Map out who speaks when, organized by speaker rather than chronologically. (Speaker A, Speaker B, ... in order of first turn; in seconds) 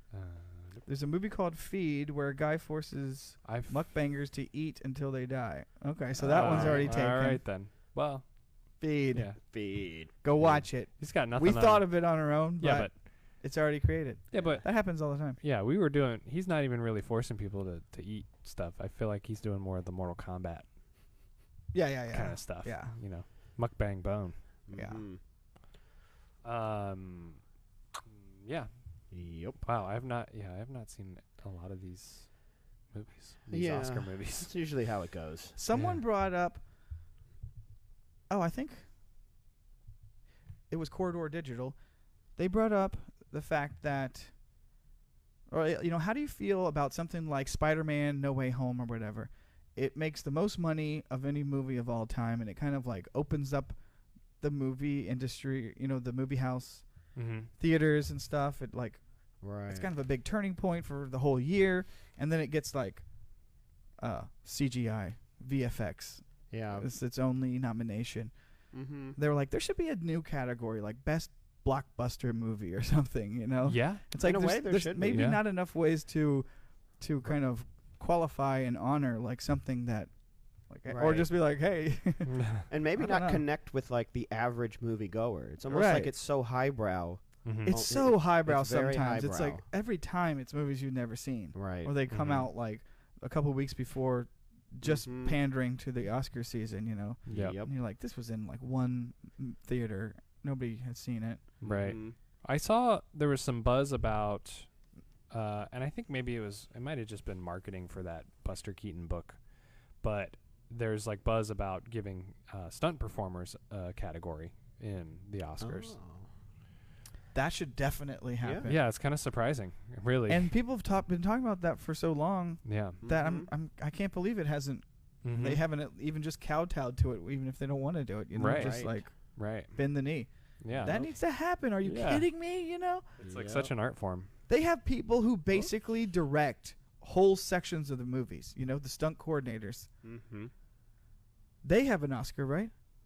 Speaker A: 0.1-0.8, 3.4-3.9, 6.2-9.4, 11.0-13.3, 14.3-20.7, 22.1-24.4, 26.4-27.4, 28.1-28.7, 29.6-34.5, 35.7-36.0, 57.1-57.5, 73.7-74.0, 75.1-75.4, 82.3-82.6, 87.4-87.8, 92.1-92.5, 97.2-97.6, 101.6-104.7, 105.3-109.4, 110.0-116.0, 118.6-120.5, 122.6-123.0, 125.2-125.6, 128.3-129.8, 130.6-131.1, 131.8-132.3, 133.2-134.3
Speaker B: 0.8-7.5, 8.8-9.5, 10.2-15.4, 21.7-22.9, 24.7-25.0, 35.6-36.6, 38.3-38.9, 40.7-41.8, 42.4-44.3, 45.5-53.8, 54.4-63.1, 64.0-68.3, 69.1-80.1, 80.6-83.4, 85.7-86.1, 87.6-101.4, 117.3-118.8, 120.3-133.0, 134.5-139.9, 141.6-142.7
Speaker C: 6.2-7.0, 9.4-10.7, 14.3-14.6, 24.7-25.2, 29.1-29.6, 33.5-35.6, 59.4-59.9, 66.5-66.9, 68.7-69.2, 74.2-75.4, 80.8-81.3, 82.7-89.6, 91.5-92.4, 94.8-95.4, 97.3-97.7, 101.6-102.2, 115.6-116.3, 118.4-118.7, 123.0-123.5, 128.5-128.9, 130.7-131.1, 133.2-133.7, 140.0-140.5